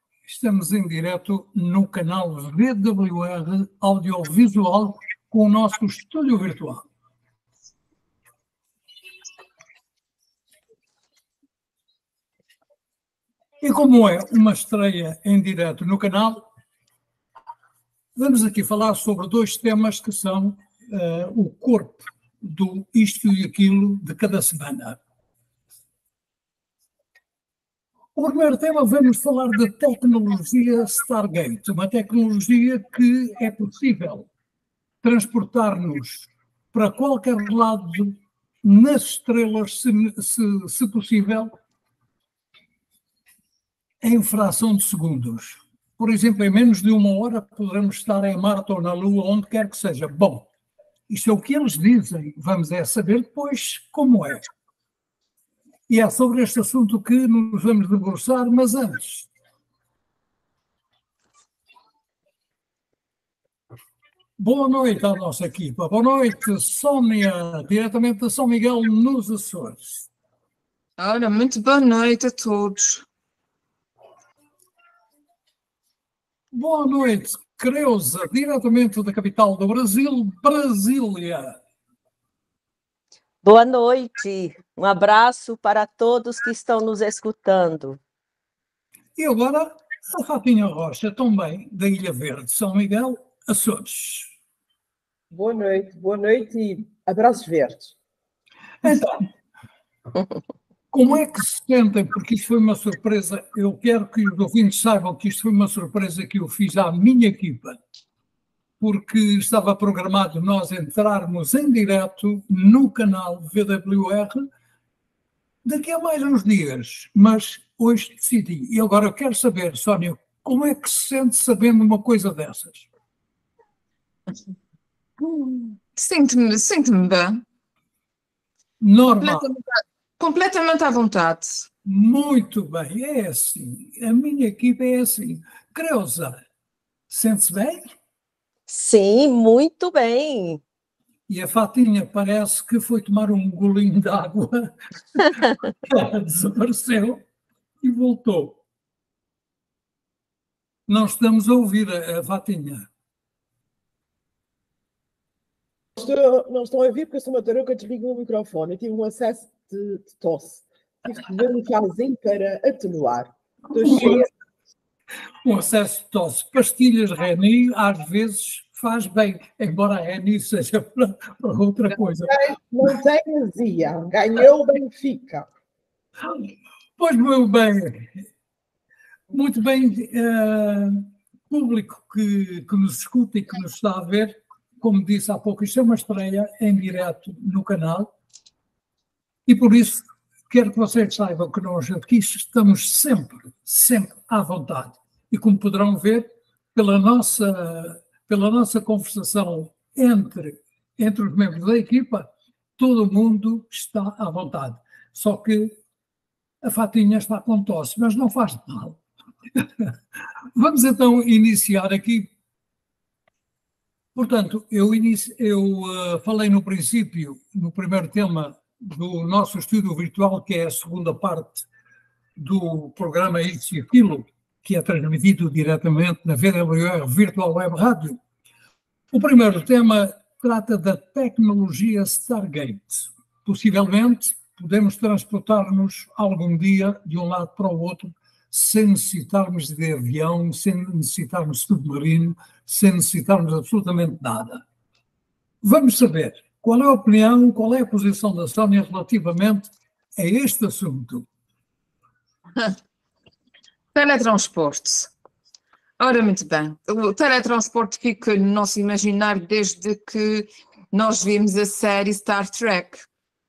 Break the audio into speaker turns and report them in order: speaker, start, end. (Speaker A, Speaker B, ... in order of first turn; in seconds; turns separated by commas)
Speaker A: 0.2-6.8, Speaker A: 13.6-16.4, Speaker A: 18.1-25.0, Speaker A: 28.1-34.3, Speaker A: 35.0-41.5, Speaker A: 44.0-50.5, Speaker A: 51.1-54.4, Speaker A: 55.9-59.3, Speaker A: 64.4-70.1, Speaker B: 71.0-73.0, Speaker A: 76.5-81.6, Speaker C: 83.4-88.0, Speaker A: 89.2-94.3, Speaker D: 95.3-97.9, Speaker A: 98.8-99.2, Speaker A: 100.9-107.8, Speaker A: 108.8-114.5, Speaker A: 115.6-122.9, Speaker B: 125.2-127.4, Speaker A: 128.8-129.4, Speaker B: 129.2-131.7, Speaker A: 131.8-136.4, Speaker A: 137.1-137.9, Speaker C: 138.7-140.6, Speaker A: 141.3-147.2, Speaker A: 147.8-148.6, Speaker A: 150.9-152.9, Speaker D: 156.0-164.3, Speaker A: 163.8-164.3, Speaker A: 165.4-172.4, Speaker D: 172.2-175.5, Speaker A: 177.0-178.2, Speaker A: 179.3-188.1, Speaker A: 189.4-205.8, Speaker A: 206.6-209.0, Speaker A: 209.6-209.9, Speaker A: 210.5-212.3, Speaker A: 214.1-221.7, Speaker A: 222.4-228.2, Speaker A: 229.1-244.6, Speaker A: 245.6-251.2, Speaker B: 253.9-255.1, Speaker B: 256.0-263.1